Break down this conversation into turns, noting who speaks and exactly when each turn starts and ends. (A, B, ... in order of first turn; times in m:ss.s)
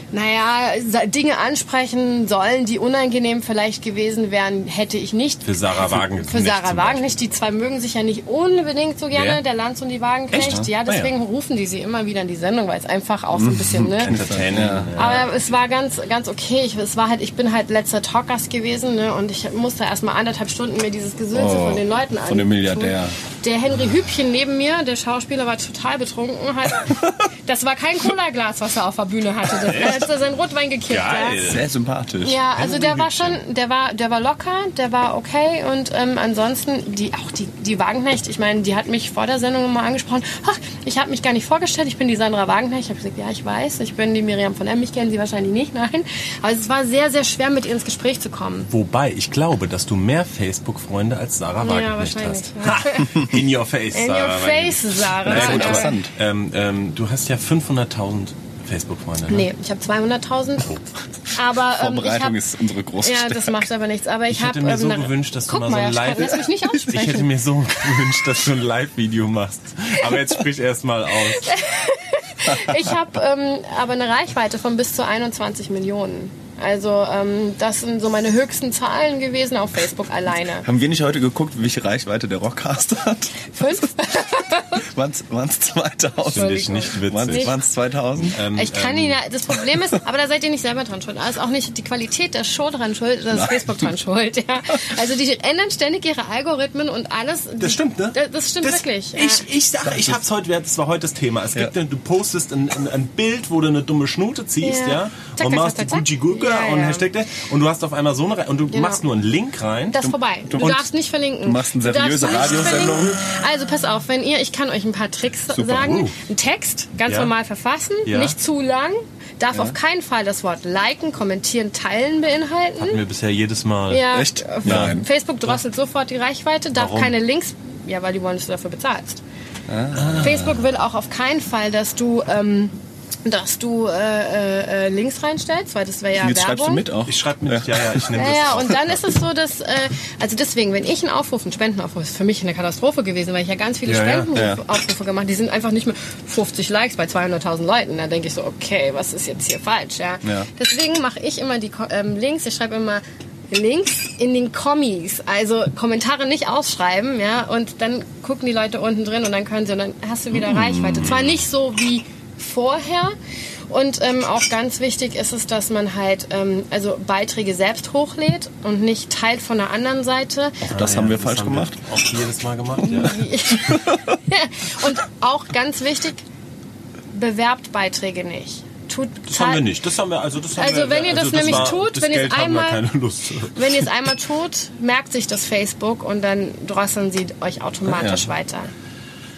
0:00.1-0:14.2 A
0:05.4-0:07.1 B
0:10.3-0:11.1 B
0:10.3-0:11.0 C
0:13.3-0:14.9 C
0:14.0-0:15.3 B
0:14.9-0:31.5 A
0:21.3-0:23.2 C
0:29.6-0:30.0 B
0:30.9-0:31.7 B
0:31.4-0:32.4 C
0:32.2-0:48.7 A
0:32.6-0:33.4 B
0:48.7-0:59.5 B
0:51.6-0:53.3 A
0:53.9-0:56.0 A
0:55.2-0:56.1 C
0:59.3-1:00.8 A
1:01.3-1:02.4 A
1:01.7-1:03.6 C
1:03.0-1:07.3 A
1:04.3-1:11.6 B
1:11.4-1:20.6 A
1:12.4-1:12.9 C
1:20.6-1:24.1 C
1:23.5-1:24.8 A
1:24.7-1:28.4 C
1:26.3-1:27.6 B
1:26.3-1:27.5 A
1:28.3-1:29.2 B
1:28.5-1:39.5 A
1:33.3-1:33.9 C
1:37.6-1:50.0 B
1:39.8-1:40.2 C
1:44.6-1:47.1 A
1:48.7-1:49.0 A
1:49.9-2:03.0 A
1:50.0-1:50.8 C
1:50.6-1:50.8 B
1:51.4-1:53.2 C
1:55.6-1:56.1 B
1:57.1-1:57.3 B
1:58.0-1:58.4 B
2:02.8-2:05.6 B
2:03.9-2:09.2 A
2:04.1-2:05.0 C
2:06.7-2:07.1 B
2:09.7-2:10.5 C
2:09.9-2:10.6 B
2:10.2-2:16.8 A
2:16.2-2:18.6 C
2:17.0-2:19.0 B
2:18.1-2:43.1 A
2:23.8-2:24.3 B
2:24.3-2:24.6 C
2:40.7-2:41.4 B
2:43.7-2:50.6 A
2:50.6-2:51.8 C
2:50.7-2:53.2 B
2:52.8-2:56.2 A
2:53.6-2:54.2 C
2:57.1-2:59.7 A
2:59.3-3:03.8 B
3:00.6-3:02.8 A
3:03.5-3:08.7 A
3:07.8-3:08.2 C